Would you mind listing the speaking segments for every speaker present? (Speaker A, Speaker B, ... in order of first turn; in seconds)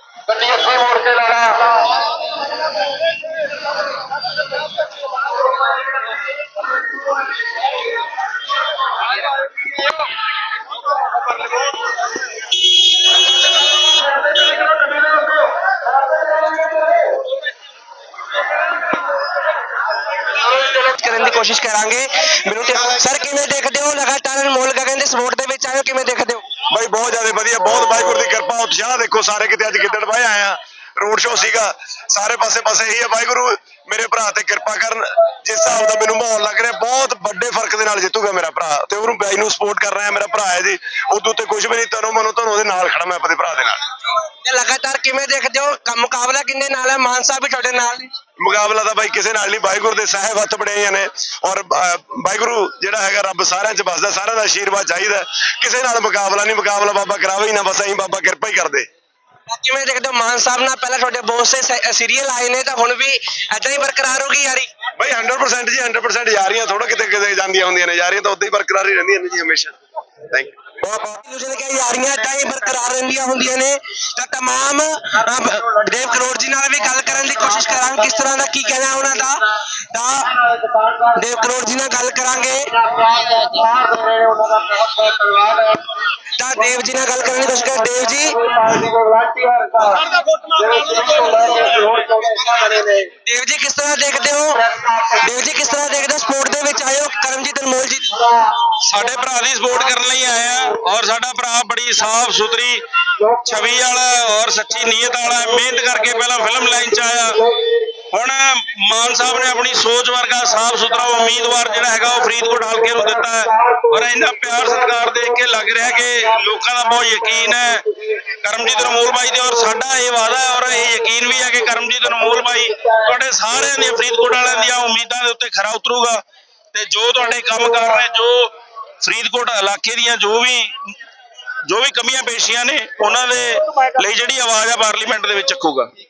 Speaker A: 0.3-1.9, 14.1-15.5, 16.1-17.2, 75.5-76.2, 76.9-78.3, 80.3-81.5, 82.7-85.8, 87.2-93.1, 94.6-95.2, 98.2-98.7, 103.2-103.6, 104.9-108.0, 110.9-118.2, 118.9-119.5, 122.0-124.6
Speaker B: 20.3-26.4, 44.3-48.1, 59.5-64.7, 70.8-80.3, 81.2-82.7, 86.4-88.4, 93.2-94.6, 95.1-98.2
Speaker C: 26.7-43.8, 48.4-58.9, 65.0-69.8, 70.3-70.6
Speaker D: 98.8-102.8, 103.4-107.4, 108.1-117.8, 118.4-126.2, 126.7-130.9, 131.7-135.9